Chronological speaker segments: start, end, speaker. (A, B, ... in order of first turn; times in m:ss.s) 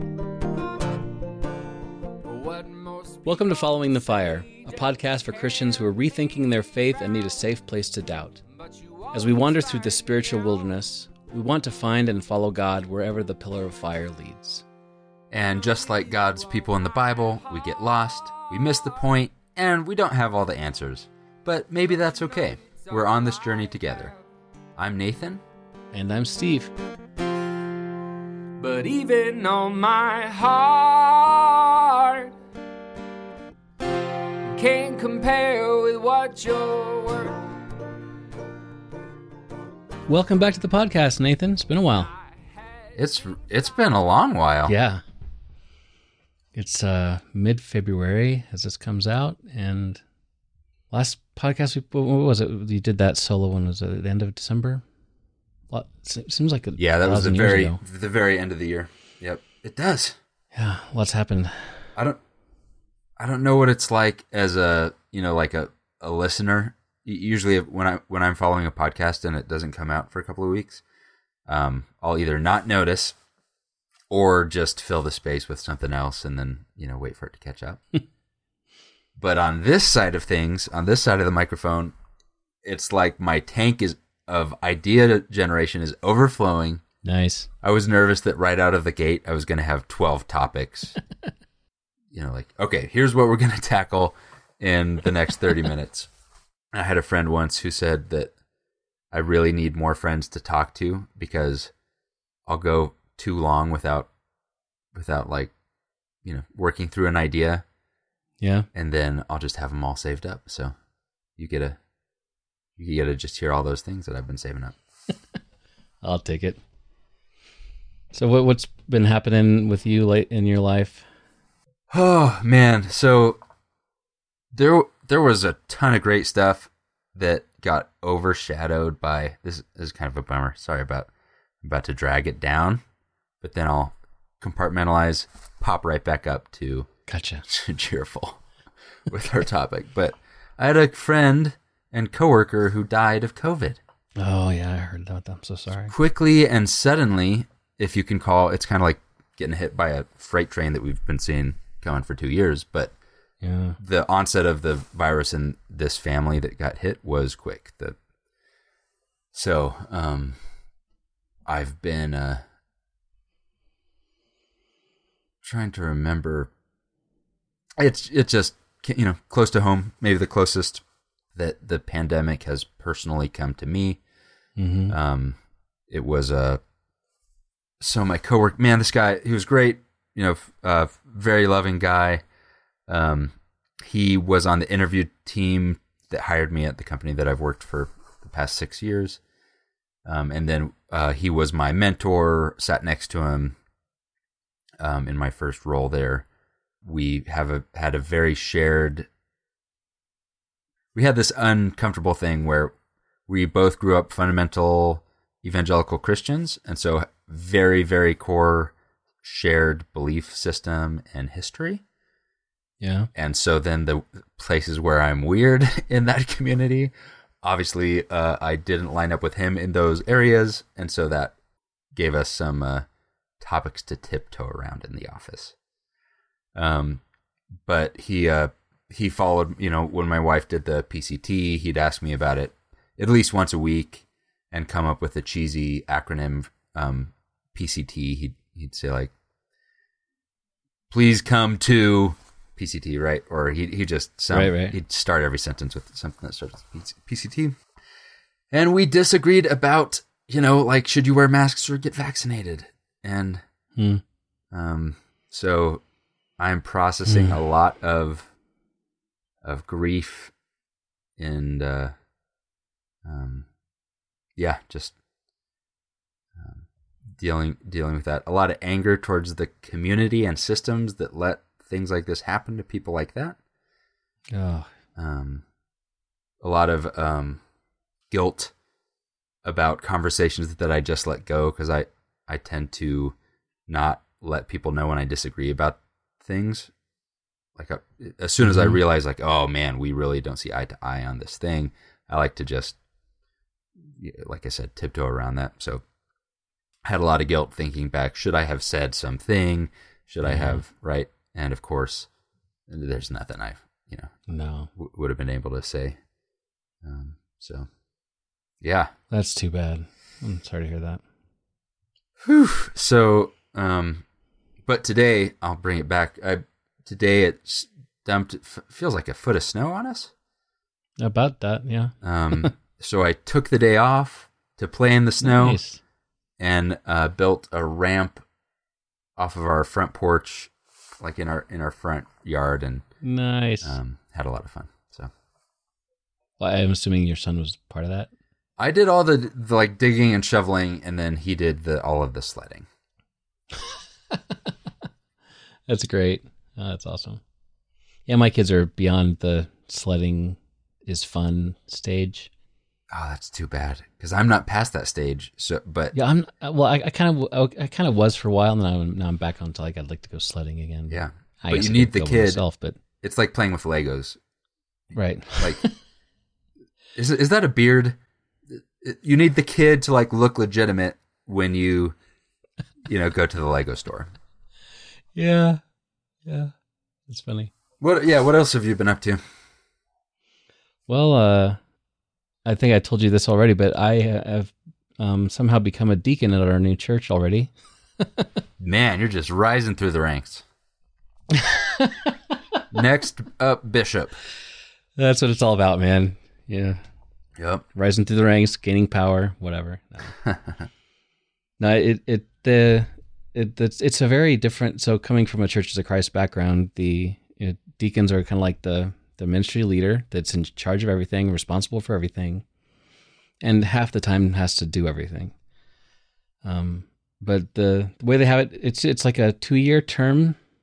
0:02.2-0:03.5 A
0:03.2-0:08.4 B
0:04.2-0:05.2 A
0:08.6-0:10.0 A
0:09.1-0:14.6 B
0:15.3-0:24.1 C
0:24.8-0:25.4 C
0:25.9-0:26.7 B
0:28.6-0:32.3 A
0:34.5-0:37.4 A
0:40.1-0:42.1 B
0:43.0-0:44.8 C
0:44.7-0:45.0 B
0:46.6-0:50.0 B
0:50.9-0:54.8 B
0:55.7-0:57.8 B
0:56.8-1:00.2 C
1:00.5-1:01.8 B
1:03.2-1:10.8 C
1:11.5-1:13.2 C
1:14.1-1:17.8 C
1:19.2-1:22.0 C
1:22.6-1:26.8 C
1:27.0-1:27.5 B
1:27.6-1:31.0 C
1:32.1-1:36.1 C
1:36.7-1:38.3 C
1:39.1-1:41.7 C
1:42.5-1:44.1 C
1:44.9-1:45.5 C
1:46.2-1:47.6 C
1:48.4-1:48.7 B
1:48.7-1:50.8 C
1:51.4-1:51.8 C
1:52.8-1:54.8 C
1:56.0-1:56.6 B
1:58.1-2:01.1 B
2:01.9-2:03.4 C
2:04.5-2:11.1 C
2:11.6-2:12.8 C
2:13.4-2:16.9 C
2:17.1-2:17.4 B
2:17.5-2:18.4 C
2:19.1-2:23.8 C
2:24.2-2:25.9 B
2:25.9-2:32.9 C
2:33.4-2:33.8 B
2:33.8-2:38.0 C
2:39.3-2:40.4 C
2:41.5-2:42.4 C
2:45.4-2:46.5 C
2:47.8-2:50.8 C
2:51.4-2:54.0 C
2:54.6-2:55.0 B
2:54.9-2:55.4 C
2:55.9-2:56.6 C
2:57.8-3:02.2 C
3:02.9-3:09.2 C
3:10.0-3:13.6 C
3:14.8-3:16.3 C
3:16.8-3:19.1 C
3:21.0-3:22.8 C
3:23.3-3:31.8 C
3:32.8-3:33.1 B
3:33.2-3:41.4 C
3:41.9-3:42.9 C
3:43.4-3:45.6 C
3:46.6-3:47.0 C
3:47.7-3:59.1 C
4:00.9-4:07.6 C
4:04.3-4:04.8 B
4:08.5-4:13.4 C
4:13.8-4:14.0 B
4:14.5-4:15.8 C
4:16.4-4:18.3 C
4:17.1-4:17.4 B
4:19.4-4:20.3 C
4:21.2-4:21.9 C
4:23.0-4:23.5 C
4:24.4-4:25.0 C
4:26.4-4:33.4 C
4:34.3-4:34.7 B
4:35.0-4:35.4 C
4:36.4-4:37.4 C
4:38.1-4:38.5 C
4:39.4-4:43.2 C
4:43.7-4:46.7 C
4:47.6-4:52.8 C
4:48.4-4:48.8 B
4:53.8-4:55.8 C
4:56.8-5:02.1 C
5:00.2-5:00.6 B
5:02.7-5:04.1 C
5:04.3-5:04.7 B
5:04.8-5:06.0 C
5:06.8-5:07.7 C
5:08.6-5:08.9 C
5:09.1-5:11.0 B
5:12.2-5:14.0 C
5:14.7-5:20.1 C
5:21.0-5:22.5 B
5:22.0-5:25.6 C
5:25.2-5:25.8 B
5:26.4-5:28.2 C
5:29.2-5:32.8 C
5:33.0-5:33.8 B
5:33.6-5:35.1 C
5:36.4-5:38.1 B
5:38.6-5:42.7 C
5:45.7-5:47.2 B
5:48.1-5:52.3 B
5:52.9-5:56.0 C
5:55.9-6:02.8 B
6:00.9-6:02.4 C
6:03.0-6:04.2 C
6:04.9-6:05.7 B
6:07.0-6:12.0 C
6:12.8-6:14.1 C
6:15.2-6:15.6 B
6:16.2-6:16.5 B
6:17.1-6:17.5 B
6:17.8-6:19.2 C
6:20.9-6:21.6 B
6:22.5-6:28.3 B
6:28.6-6:30.4 C
6:31.4-6:32.2 B
6:32.7-6:34.2 C
6:35.0-6:36.8 B
6:37.4-6:37.6 C
6:37.8-6:40.2 B
6:40.2-6:40.6 C
6:41.6-6:52.4 B
6:53.4-6:55.3 B
6:56.4-7:00.4 B